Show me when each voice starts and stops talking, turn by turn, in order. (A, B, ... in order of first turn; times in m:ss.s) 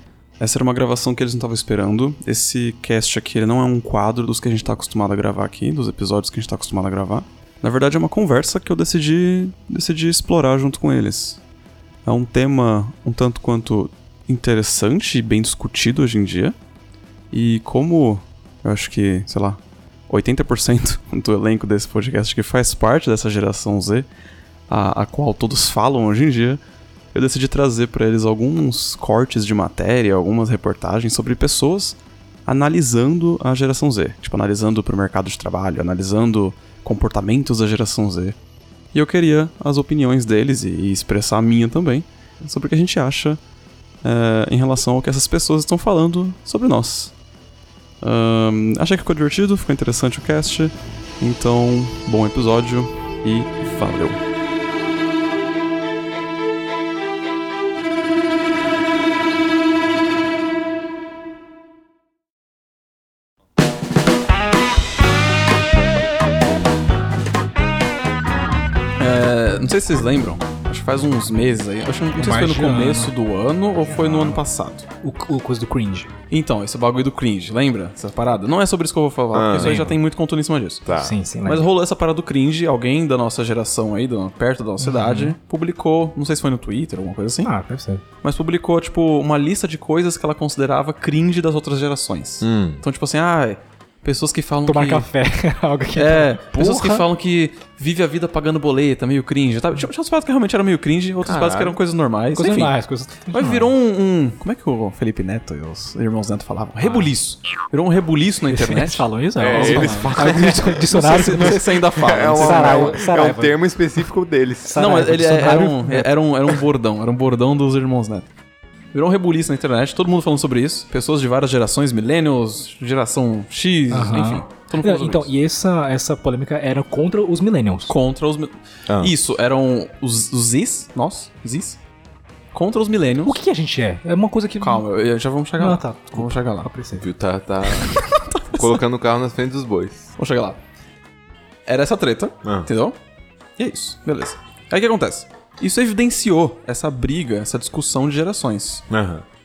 0:00.4-0:11.4 A
0:12.0-0:16.6 A
0:17.3-0:24.1 A
0:24.7-0:26.6 A
0:27.1-0:38.4 A
0:38.9-0:43.4 A
0:44.0-0:47.1 A
0:48.0-0:54.2 A
1:09.0-1:14.9 A
1:12.2-1:13.1 B
1:13.8-1:14.4 B
1:15.0-1:16.1 B
1:16.3-1:20.9 A
1:19.3-1:20.0 C
1:19.6-1:19.8 B
1:20.8-1:21.1 C
1:20.9-1:21.6 B
1:21.5-1:27.5 A
1:24.8-1:25.3 B
1:27.4-1:28.0 B
1:28.2-1:35.1 A
1:32.4-1:32.8 C
1:34.7-1:37.0 B
1:36.0-1:42.8 A
1:41.2-1:41.8 C
1:42.4-1:43.7 B
1:43.3-1:50.2 A
1:46.8-1:47.1 B
1:48.5-1:51.7 B
1:49.4-1:51.3 C
1:50.9-1:53.0 A
1:52.0-1:54.9 C
1:52.3-1:53.6 B
1:54.6-1:56.1 B
1:54.8-1:58.3 A
1:58.9-2:05.3 A
2:03.9-2:07.9 B
2:07.9-2:11.8 A
2:08.9-2:09.1 C
2:12.5-2:13.4 A
2:13.3-2:14.8 B
2:14.6-2:16.7 A
2:15.6-2:17.0 B
2:17.0-2:20.1 C
2:17.9-2:18.7 A
2:20.2-2:20.6 A
2:21.7-2:23.0 A
2:22.4-2:22.7 C
2:23.6-2:28.9 A
2:28.9-2:29.2 C